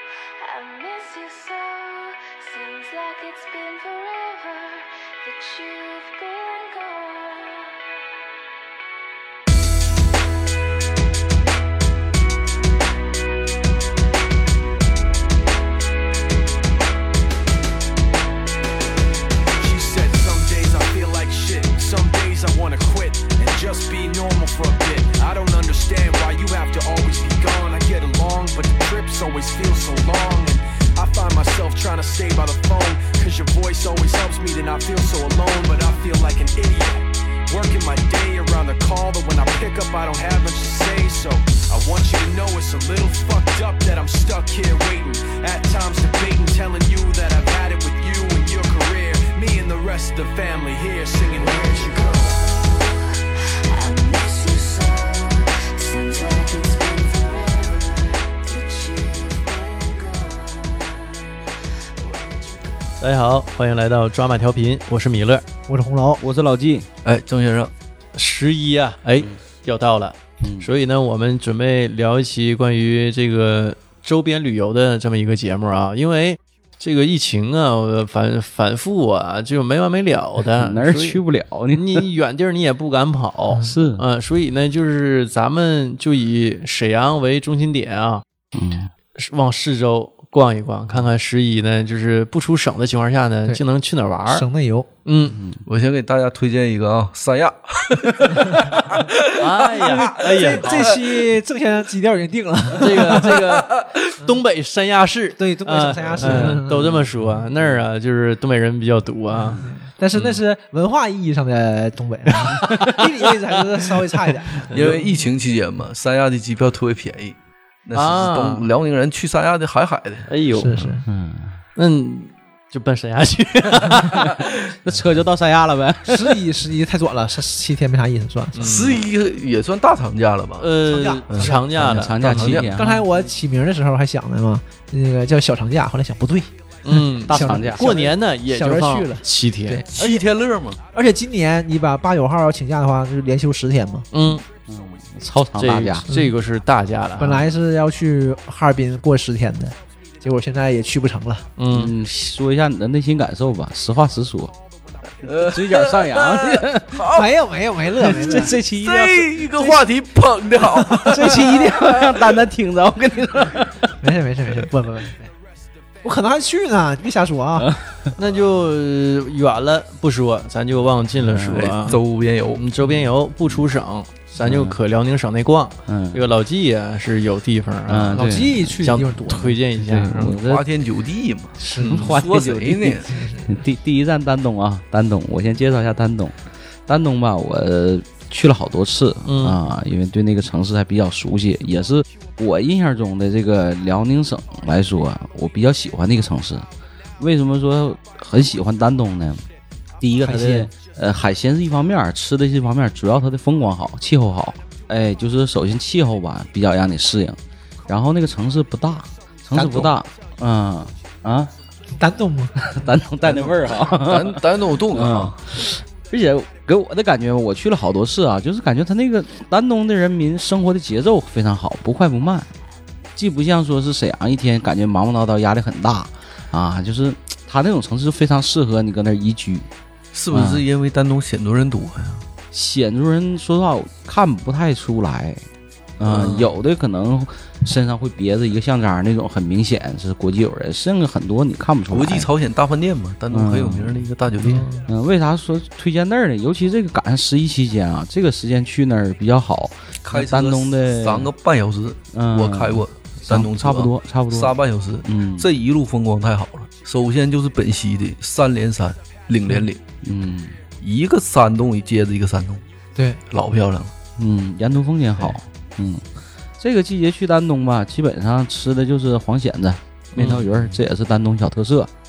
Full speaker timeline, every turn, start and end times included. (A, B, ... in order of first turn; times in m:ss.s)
0:00.4-0:07.8 A
0:19.6-0:52.6 B
0:52.6-0:53.2 A
0:53.7-1:01.2 A
1:03.0-1:05.4 C
1:05.7-1:06.2 D
1:06.2-1:06.9 E
1:07.0-1:07.7 F
1:08.2-1:21.2 C
1:10.4-1:10.7 E
1:20.6-1:22.1 E
1:21.7-1:28.2 C
1:23.6-1:24.0 E
1:28.5-1:28.9 E
1:29.2-1:34.5 C
1:34.3-1:34.9 D
1:35.1-1:35.4 C
1:35.3-1:35.6 E
1:35.7-1:41.3 F
1:39.4-1:40.9 C
1:40.0-1:43.4 D
1:42.8-1:49.6 C
1:43.4-1:44.1 F
1:45.4-1:47.0 D
1:46.2-1:46.6 E
1:49.5-1:54.7 D
1:52.7-1:53.5 C
1:54.5-1:55.0 C
1:54.7-2:00.3 F
1:57.9-1:58.7 C
2:00.3-2:01.0 C
2:00.6-2:01.0 D
2:01.1-2:01.6 E
2:01.8-2:04.3 C
2:03.8-2:06.4 E
2:06.0-2:08.7 D
2:08.6-2:09.0 C
2:08.6-2:10.7 F
2:10.6-2:12.6 C
2:10.9-2:11.9 D
2:11.3-2:11.6 F
2:11.8-2:13.0 E
2:12.2-2:12.8 F
2:12.8-2:20.2 D
2:16.8-2:19.8 C
2:17.2-2:18.1 E
2:19.9-2:20.8 F
2:20.9-2:24.1 D
2:24.1-2:24.4 C
2:24.7-2:26.0 E
2:25.6-2:27.5 C
2:26.1-2:26.3 D
2:27.2-2:31.4 D
2:31.6-2:31.9 C
2:31.7-2:34.5 E
2:35.2-2:37.4 F
2:35.3-2:37.0 E
2:37.0-2:39.8 D
2:38.0-2:42.1 F
2:38.2-2:38.8 E
2:40.6-2:42.0 D
2:41.1-2:44.0 E
2:44.0-2:45.3 D
2:46.0-2:47.7 D
2:47.6-2:48.1 E
2:48.2-2:52.0 C
2:51.2-2:51.7 E
2:51.5-2:52.7 F
2:52.5-3:00.3 C
2:54.4-2:54.8 E
2:55.9-2:56.3 E
2:57.9-2:58.8 E
2:58.1-2:59.6 D
2:59.8-3:00.6 E
3:00.0-3:03.2 F
3:01.6-3:02.2 D
3:01.8-3:16.7 E
3:03.1-3:03.6 D
3:09.3-3:09.6 C
3:17.2-3:19.4 E
3:20.0-3:31.5 E
3:20.2-3:20.7 D
3:29.6-3:29.9 D
3:32.0-3:32.6 D
3:32.6-3:42.5 E
3:33.3-3:35.4 F
3:43.2-3:49.7 E
3:50.1-3:52.2 F
3:50.3-3:50.6 E
3:52.5-3:55.4 E
3:56.0-4:02.3 E
3:56.0-3:56.5 F
4:01.9-4:04.7 F
4:03.3-4:04.0 E
4:04.4-4:04.9 D
4:04.8-4:11.3 E
4:10.0-4:19.8 F
4:12.1-4:14.5 E
4:15.0-4:15.5 E
4:20.0-4:20.6 E
4:20.8-4:22.6 F
4:23.3-4:23.9 F
4:24.2-4:26.0 E
4:26.6-4:31.9 E
4:30.1-4:30.8 F